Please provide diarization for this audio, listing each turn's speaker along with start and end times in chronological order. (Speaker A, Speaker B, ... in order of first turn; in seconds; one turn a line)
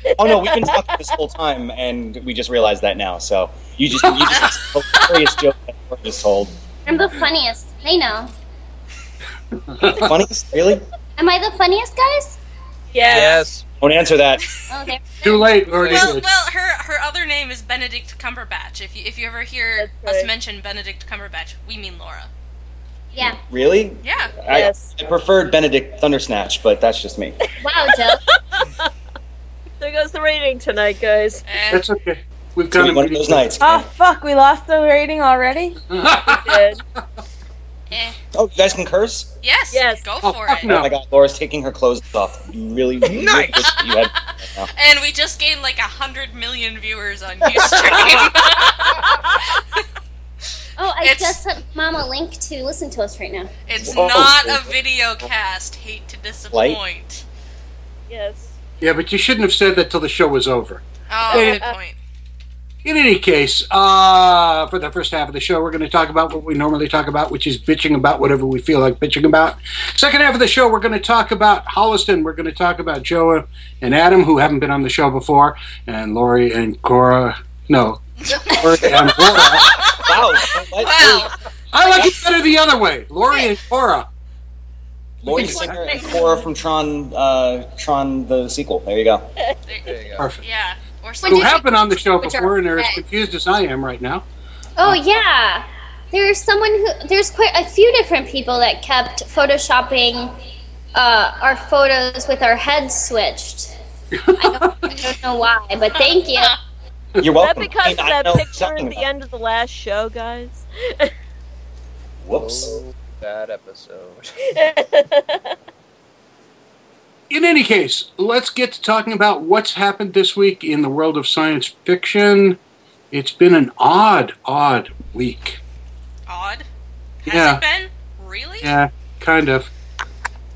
Speaker A: 0.2-6.5
Speaker B: 0.2-0.7
Speaker C: 4.4-4.6
Speaker D: 6.8-8.3
Speaker E: 9.7-10.1
Speaker A: 9.9-10.8
Speaker D: 11.2-12.4
Speaker B: 12.9-13.4
Speaker F: 13.1-13.6
Speaker A: 13.8-14.4
Speaker D: 14.7-15.6
Speaker E: 15.2-16.3
Speaker F: 15.6-16.1
Speaker C: 15.9-22.3
Speaker B: 19.8-20.3
Speaker A: 23.5-27.4
Speaker C: 24.0-24.3
Speaker B: 24.5-24.9
Speaker D: 27.6-28.2
Speaker B: 29.8-31.4
Speaker C: 31.4-31.9
Speaker E: 31.7-33.6
Speaker A: 32.7-33.7
Speaker G: 33.6-35.8
Speaker E: 35.9-36.8
Speaker B: 36.3-36.8
Speaker C: 37.9-38.2
Speaker A: 38.3-39.3
Speaker C: 39.4-40.8
Speaker B: 39.7-40.0
Speaker E: 40.2-40.9
Speaker A: 40.7-44.7
Speaker F: 43.0-43.7
Speaker C: 43.8-49.8
Speaker D: 50.8-53.5
Speaker C: 51.0-51.4
Speaker C: 53.6-57.2
Speaker A: 53.8-54.7
Speaker A: 56.5-56.8
Speaker B: 58.1-58.5
Speaker E: 58.8-61.6
Speaker C: 61.1-62.0
Speaker B: 61.3-61.7
Speaker E: 62.8-79.8
Speaker C: 78.2-82.3
Speaker A: 80.0-81.3
Speaker E: 81.7-84.0
Speaker A: 85.2-89.3
Speaker E: 85.3-85.8
Speaker C: 89.7-91.6
Speaker F: 89.8-90.3
Speaker D: 91.2-93.0
Speaker E: 91.2-94.2
Speaker D: 94.8-100.3
Speaker D: 100.9-103.7
Speaker E: 104.2-105.1
Speaker D: 104.4-106.5
Speaker C: 106.0-106.5
Speaker A: 107.2-109.0
Speaker B: 107.4-111.1
Speaker A: 112.2-112.8
Speaker F: 112.3-114.3
Speaker B: 114.5-115.5
Speaker E: 117.3-122.6
Speaker E: 123.1-125.6
Speaker C: 126.3-126.7
Speaker C: 127.2-128.7
Speaker E: 127.3-127.6
Speaker E: 128.6-129.7